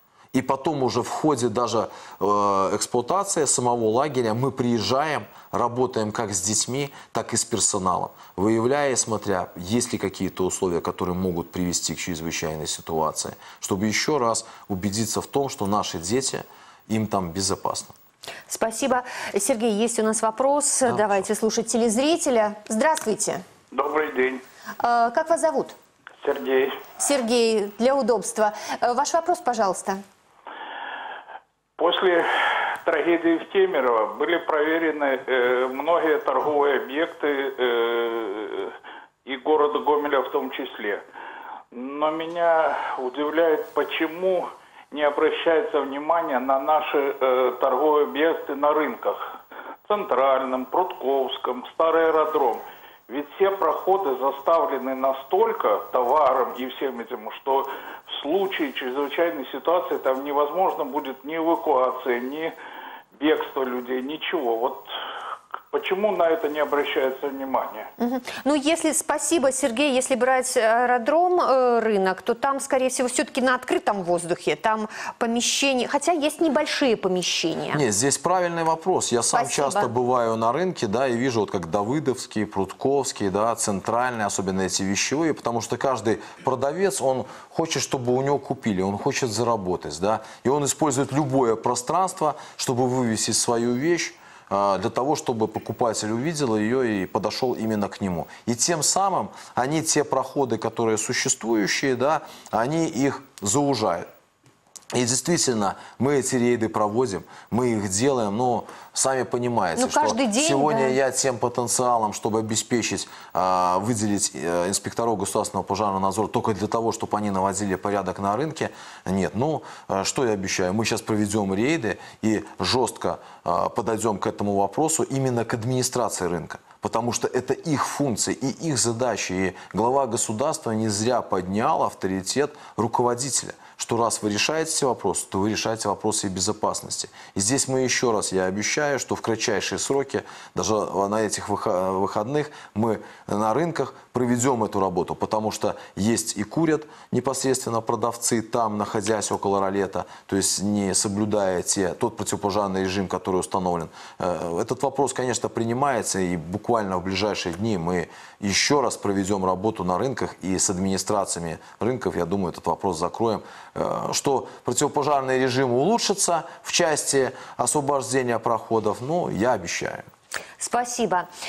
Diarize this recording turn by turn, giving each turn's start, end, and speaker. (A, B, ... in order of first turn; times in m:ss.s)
0:00.3-0:18.0 A
0:18.5-0:23.4 B
0:20.9-0:21.2 A
0:23.8-0:24.4 C
0:24.8-0:25.8 B
0:26.3-0:26.6 C
0:27.0-0:30.0 B
0:31.8-0:32.2 C
0:32.9-0:37.4 C
0:39.3-0:41.0 C
0:41.8-0:42.5 C
0:43.0-0:44.4 C
0:45.0-0:49.1 C
0:49.9-0:52.6 C
0:53.1-0:57.6 C
0:58.2-1:02.5 C
1:03.2-1:04.8 C
1:05.7-1:07.8 C
1:08.0-1:17.8 B
1:17.7-1:44.1 A
1:19.3-1:19.9 B
1:44.9-2:50.1 A
1:49.8-1:51.0 B
2:50.6-2:51.3 B